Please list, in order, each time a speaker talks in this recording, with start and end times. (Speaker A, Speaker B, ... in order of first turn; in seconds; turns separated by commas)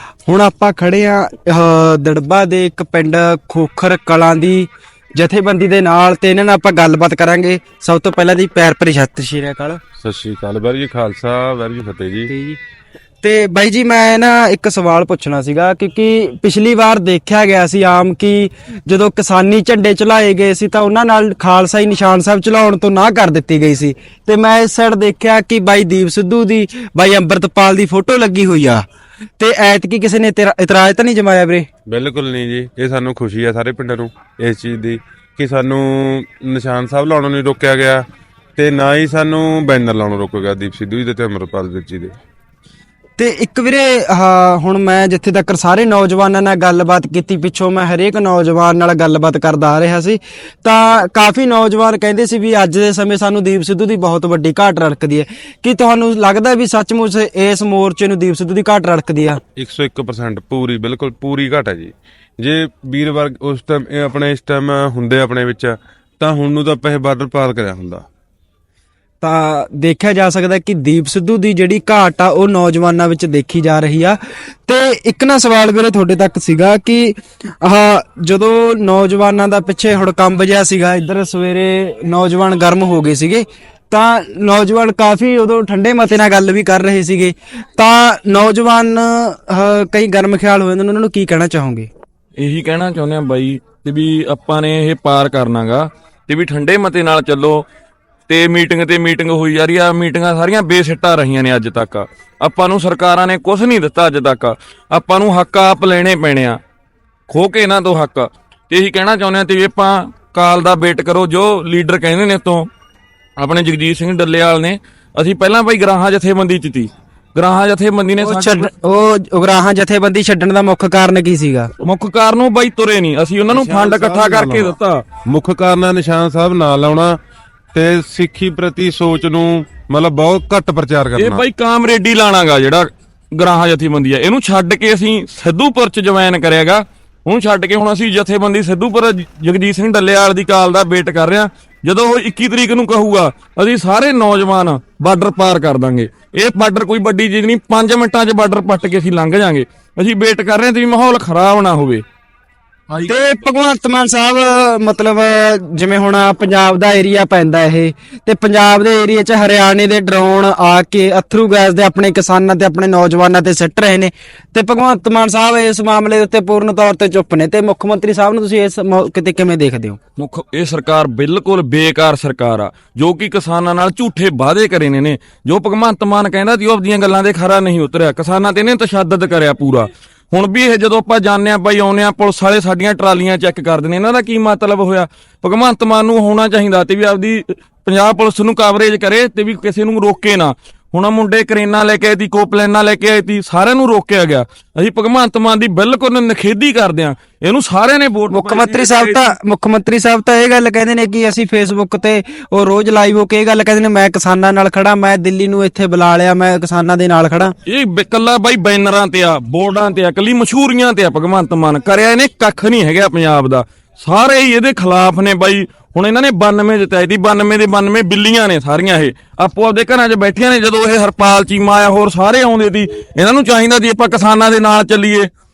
Speaker A: 0.3-9.8, Speaker B: 10.0-12.3, Speaker A: 12.3-12.6, Speaker A: 13.2-28.8, Speaker A: 29.4-31.7, Speaker B: 31.9-38.0, Speaker B: 38.5-42.1, Speaker A: 43.2-59.4, Speaker B: 59.6-68.0, Speaker A: 69.2-91.9, Speaker C: 92.4-97.6, Speaker C: 98.3-106.6, Speaker C: 107.3-112.7, Speaker C: 113.4-118.7, Speaker A: 118.2-121.7, Speaker C: 121.8-125.0, Speaker B: 123.5-124.7, Speaker B: 125.2-127.2, Speaker B: 127.7-131.4, Speaker C: 131.2-152.0, Speaker A: 153.0-170.0, Speaker C: 170.2-199.2, Speaker A: 198.3-207.5, Speaker C: 207.7-225.3